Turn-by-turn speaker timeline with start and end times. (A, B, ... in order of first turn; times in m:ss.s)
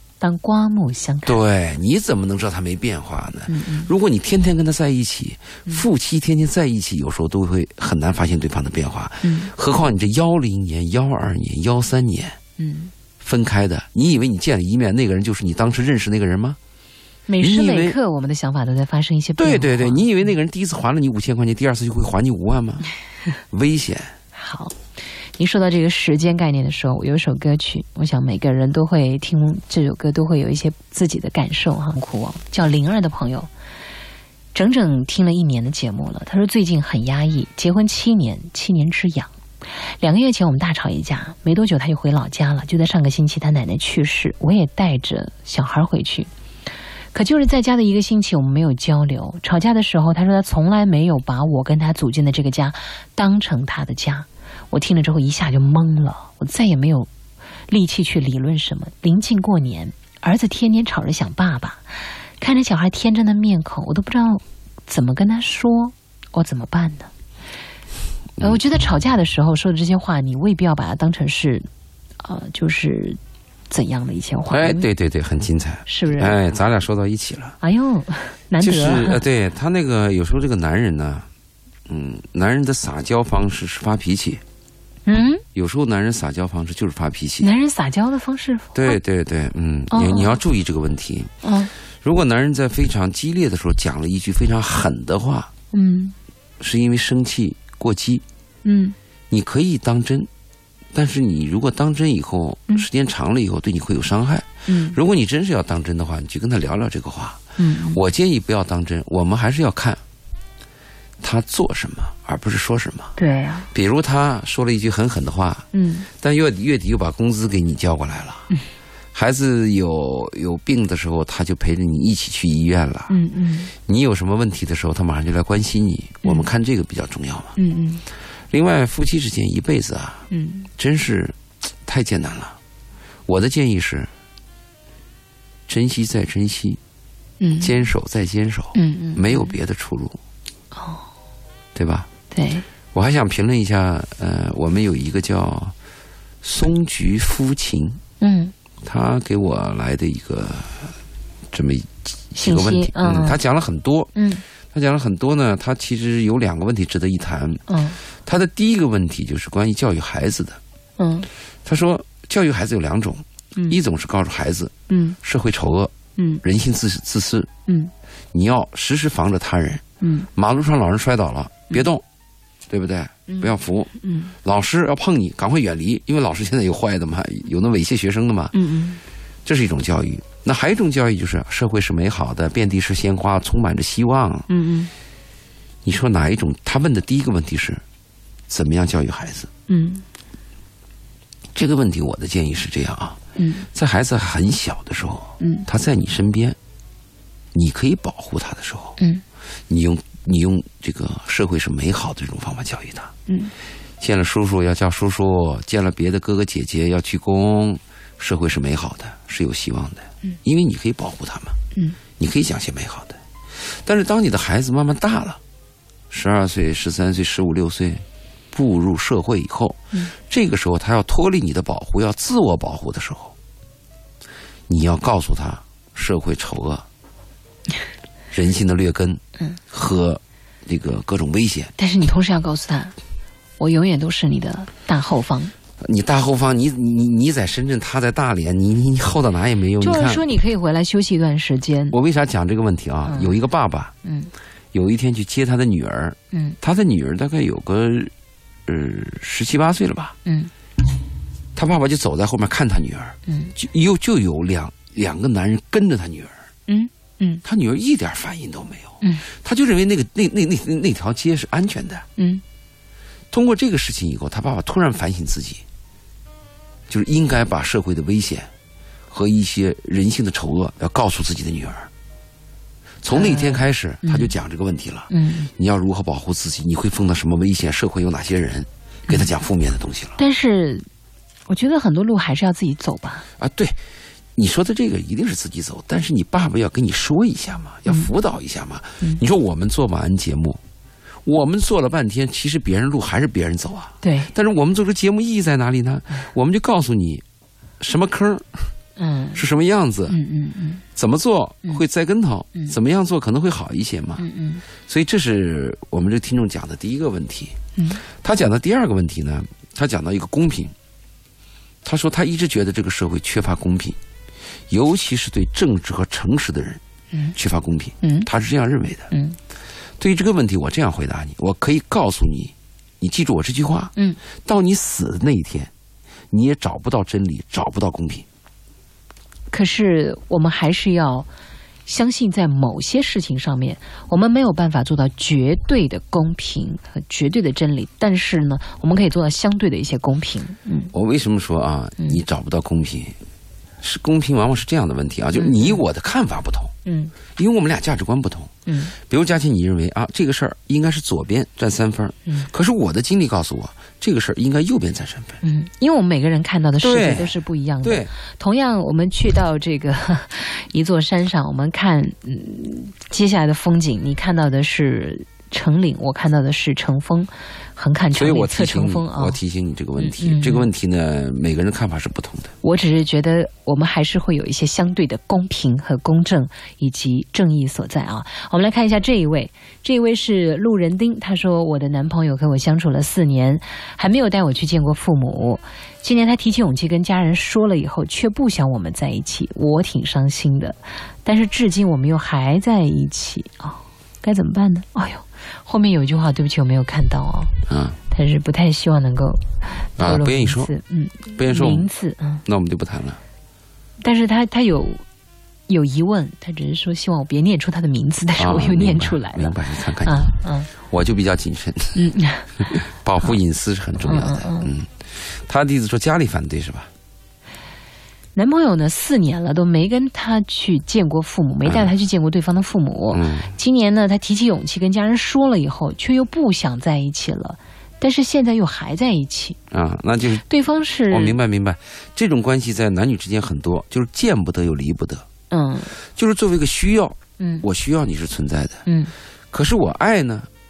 0:00.2-0:01.4 A
0:01.2-0:12.4 B
0:03.5-0:03.9 A
0:09.2-0:09.5 A
0:12.6-0:12.9 A
0:13.2-0:16.6 B
0:17.3-0:20.1 A
0:17.4-0:18.0 B
0:19.4-0:22.9 B
0:23.5-0:24.1 B
0:24.3-0:24.8 A
0:25.4-0:33.5 A
0:34.5-0:39.3 A
0:39.8-0:46.3 A
0:47.1-0:57.1 A
0:57.7-1:07.1 A
1:08.4-1:11.7 A
1:12.2-1:13.2 A
1:13.7-1:14.8 A
1:14.5-1:17.6 B
1:15.9-1:16.4 A
1:17.6-1:19.2 A
1:18.6-1:21.3 B
1:21.9-1:24.4 B
1:25.0-1:25.4 A
1:25.5-1:27.5 B
1:27.4-1:29.0 A
1:28.7-1:31.3 B
1:29.9-1:30.4 A
1:31.4-1:31.7 A
1:32.0-1:35.5 B
1:35.7-1:36.1 A
1:36.6-1:38.2 B
1:38.6-1:39.0 A
1:39.3-1:40.3 B
1:40.9-1:50.0 B
1:44.7-1:45.0 A
1:47.6-1:48.0 A
1:51.2-1:53.1 B
1:53.2-1:53.7 A
1:53.7-1:58.5 B
1:55.7-1:56.1 A
1:59.1-2:03.1 B
2:03.1-2:03.7 A
2:03.8-2:07.6 B
2:07.6-2:08.0 A
2:08.5-2:10.2 B
2:10.3-2:10.7 A
2:10.8-2:12.6 B
2:13.3-2:14.1 B
2:15.7-2:16.8 B
2:17.4-2:17.7 A
2:17.6-2:20.2 B
2:18.7-2:19.6 A
2:20.7-2:21.0 A
2:21.7-2:22.1 B
2:22.3-2:22.6 A
2:22.9-2:25.7 B
2:26.4-2:28.0 B
2:28.2-2:28.5 A
2:28.8-2:30.9 B
2:31.5-2:34.1 B
2:32.4-2:33.4 A
2:34.2-2:34.4 A
2:34.7-2:40.6 B
2:37.7-2:38.0 A
2:41.0-2:41.3 A
2:41.6-2:47.5 B
2:44.9-2:45.2 A
2:46.2-2:46.4 A
2:47.7-2:47.9 A
2:48.3-2:49.8 B
2:50.0-2:50.3 A
2:50.3-2:52.0 B
2:52.7-2:53.9 B
2:53.3-2:54.3 A
2:54.4-2:58.5 B
2:58.5-2:59.0 A
2:59.4-3:04.5 B
3:04.5-3:04.9 A
3:05.8-3:07.8 B
3:08.5-3:09.5 B
3:09.7-3:10.0 A
3:11.5-3:13.2 B
3:13.4-3:13.6 A
3:13.7-3:16.6 B
3:15.4-3:15.7 A
3:17.5-3:19.0 B
3:19.7-3:23.1 B
3:24.0-3:31.6 B
3:32.2-3:35.4 B
3:36.1-3:43.3 B
3:44.7-3:46.8 B
3:48.3-3:51.7 B
3:51.8-3:52.9 A
3:53.6-3:55.5 A
3:55.8-4:00.2 B
3:59.8-4:02.0 A
4:01.9-4:03.9 B
4:03.0-4:03.4 A
4:04.0-4:04.3 A
4:04.7-4:08.1 B
4:06.3-4:06.6 A
4:08.6-4:10.1 B
4:10.2-4:10.5 A
4:11.5-4:16.3 B
4:13.3-4:13.5 A
4:16.7-4:17.4 A
4:17.4-4:22.0 B
4:19.0-4:19.3 A
4:22.2-4:22.4 A
4:23.3-4:25.6 B
4:26.9-4:28.5 B
4:29.1-4:31.9 B
4:33.0-4:40.2 B
4:33.1-4:34.3 A
4:35.1-4:35.5 A
4:40.2-4:40.9 A
4:41.5-4:43.2 A
4:43.4-4:43.8 B
4:44.4-4:50.6 B
4:51.2-4:57.2 B
4:54.0-4:54.3 A
4:57.8-4:58.7 B
4:59.0-4:59.4 A
4:59.3-5:00.2 B
5:00.1-5:00.8 A
5:00.9-5:04.2 B
5:04.2-5:04.6 A
5:04.8-5:10.7 B
5:07.8-5:08.0 A
5:11.8-5:14.0 B
5:14.7-5:16.8 B
5:17.3-5:19.1 B
5:18.0-5:18.3 A
5:19.1-5:19.4 A
5:20.0-5:25.7 B
5:26.3-5:28.2 B
5:29.5-5:31.3 A
5:31.8-5:40.9 A
5:40.9-5:43.2 B
5:43.8-5:46.7 B
5:45.4-5:45.8 A
5:46.8-5:47.1 A
5:47.4-5:55.4 B
5:48.7-5:48.9 A
5:55.4-6:09.4 A
5:56.8-5:58.1 B
6:08.1-6:12.5 B
6:10.0-6:10.7 A
6:12.6-6:37.6 A
6:37.7-6:38.0 B
6:38.1-6:42.4 A
6:40.0-6:40.7 B
6:41.4-6:41.9 B
6:42.4-6:43.2 B
6:44.0-6:45.0 A
6:45.7-6:50.7 A
6:48.4-6:52.0 B
6:51.9-6:53.3 A
6:52.6-6:56.9 B
6:54.0-6:54.7 A
6:58.3-7:09.6 A
7:01.6-7:01.9 B
7:03.1-7:03.5 B
7:09.7-7:10.4 B
7:10.4-7:11.4 A
7:11.1-7:15.2 B
7:15.5-7:15.9 A
7:16.0-7:18.8 B
7:17.4-7:17.6 A
7:18.8-7:19.1 A
7:19.5-7:20.5 B